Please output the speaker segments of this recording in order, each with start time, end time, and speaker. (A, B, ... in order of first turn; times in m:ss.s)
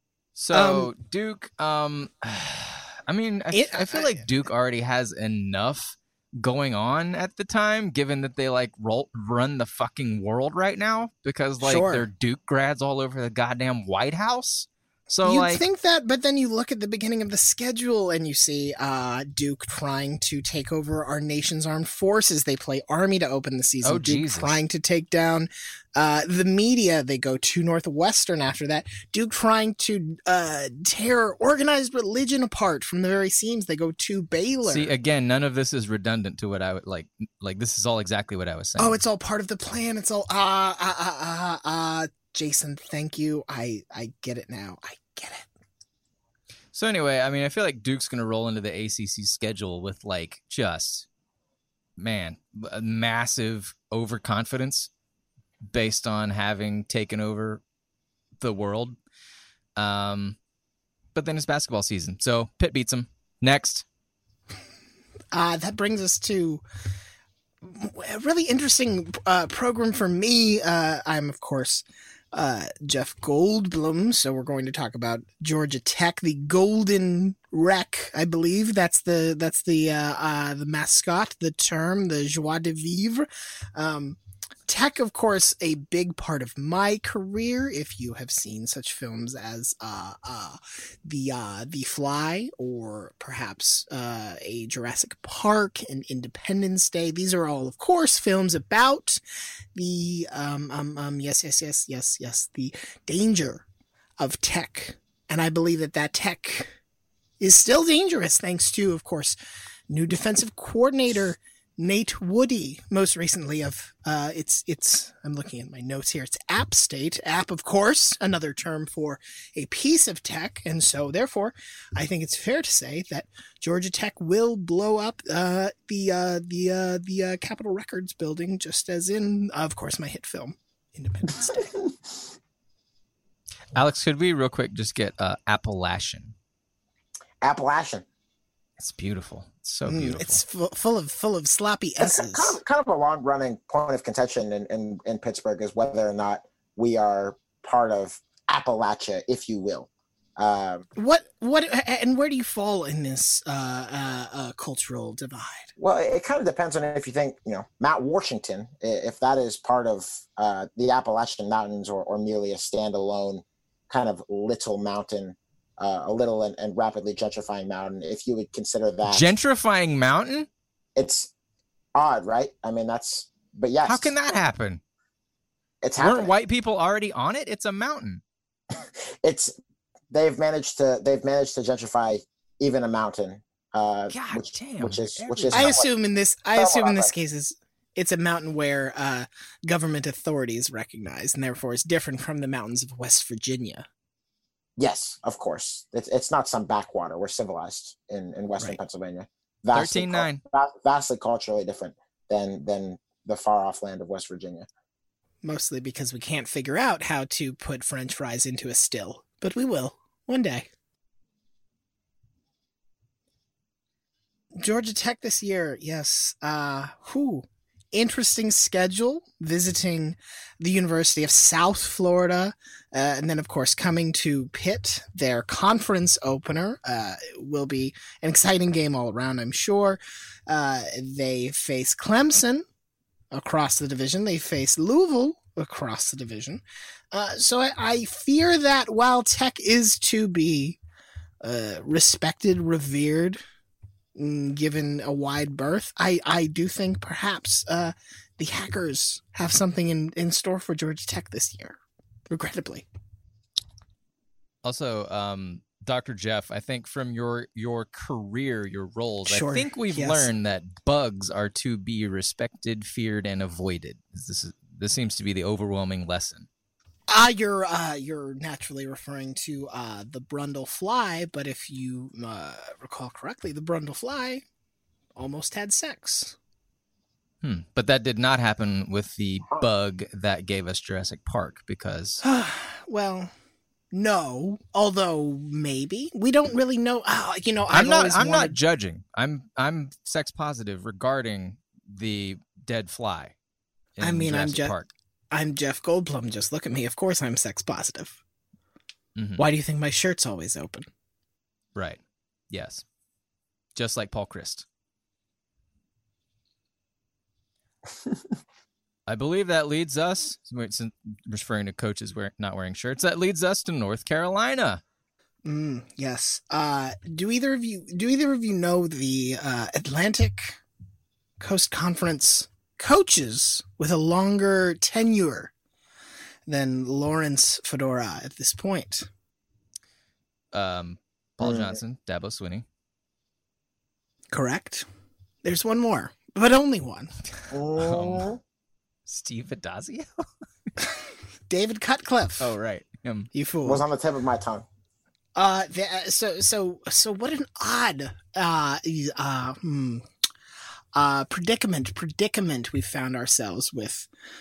0:00.4-0:15.6 A
0:00.5-0:00.9 B
0:03.5-0:04.2 B
0:11.6-0:12.0 B
0:15.2-0:34.9 B
0:23.8-0:24.6 A
0:34.6-0:39.0 A
0:38.8-0:45.5 B
0:46.7-0:51.0 A
0:52.0-0:54.9 A
0:55.7-0:57.6 A
0:58.4-0:59.0 A
0:59.8-1:00.4 A
1:01.1-1:03.8 A
1:05.3-1:06.6 B
1:07.6-1:39.2 B
1:39.7-1:43.6 B
1:44.2-1:46.7 B
1:47.4-1:49.4 B
1:49.9-2:11.7 B
2:13.7-2:16.3 A
2:17.4-2:18.0 C
2:18.8-2:20.4 A
2:19.9-2:22.6 B
2:22.0-2:30.8 C
2:31.0-2:35.7 B
2:35.8-2:49.3 C
2:49.0-2:50.5 A
2:51.0-2:51.3 C
2:51.9-2:54.1 C
2:53.8-2:54.8 A
2:55.8-2:56.3 C
2:56.0-2:58.2 A
2:58.8-2:59.5 C
3:00.1-3:05.9 C
3:04.1-3:05.8 A
3:05.5-3:13.9 B
3:06.5-3:07.1 C
3:14.8-3:24.7 C
3:19.7-3:20.4 A
3:25.4-3:30.7 B
3:34.5-3:52.6 B
3:53.3-4:00.8 B
4:01.4-4:03.4 B
4:04.2-4:11.8 B
4:12.3-4:12.8 B
4:14.6-4:26.5 A
4:19.2-4:20.3 B
4:27.1-4:34.4 B
4:35.2-4:36.4 B
4:37.4-4:42.2 A
4:42.2-4:43.3 B
4:43.9-4:48.6 B
4:47.7-4:53.3 A
4:54.0-4:54.9 A
4:54.0-4:54.7 B
4:55.3-4:58.2 B
4:59.2-4:59.4 A
4:59.4-5:00.9 B
5:01.7-5:02.0 A
5:02.5-5:02.8 A
5:03.7-5:04.6 A
5:09.1-5:14.8 A
5:15.4-5:20.6 B
5:21.4-5:25.5 B
5:26.5-5:29.1 B
5:30.5-5:32.6 A
5:31.4-5:31.8 C
5:34.3-5:34.8 B
5:35.4-5:37.1 B
5:37.5-5:38.4 C
5:37.8-5:38.3 A
5:39.1-5:40.2 A
5:41.5-5:42.5 B
5:42.4-5:43.3 A
5:43.3-5:43.8 B
5:43.6-5:44.6 C
5:45.4-5:50.0 B
5:50.9-5:54.1 B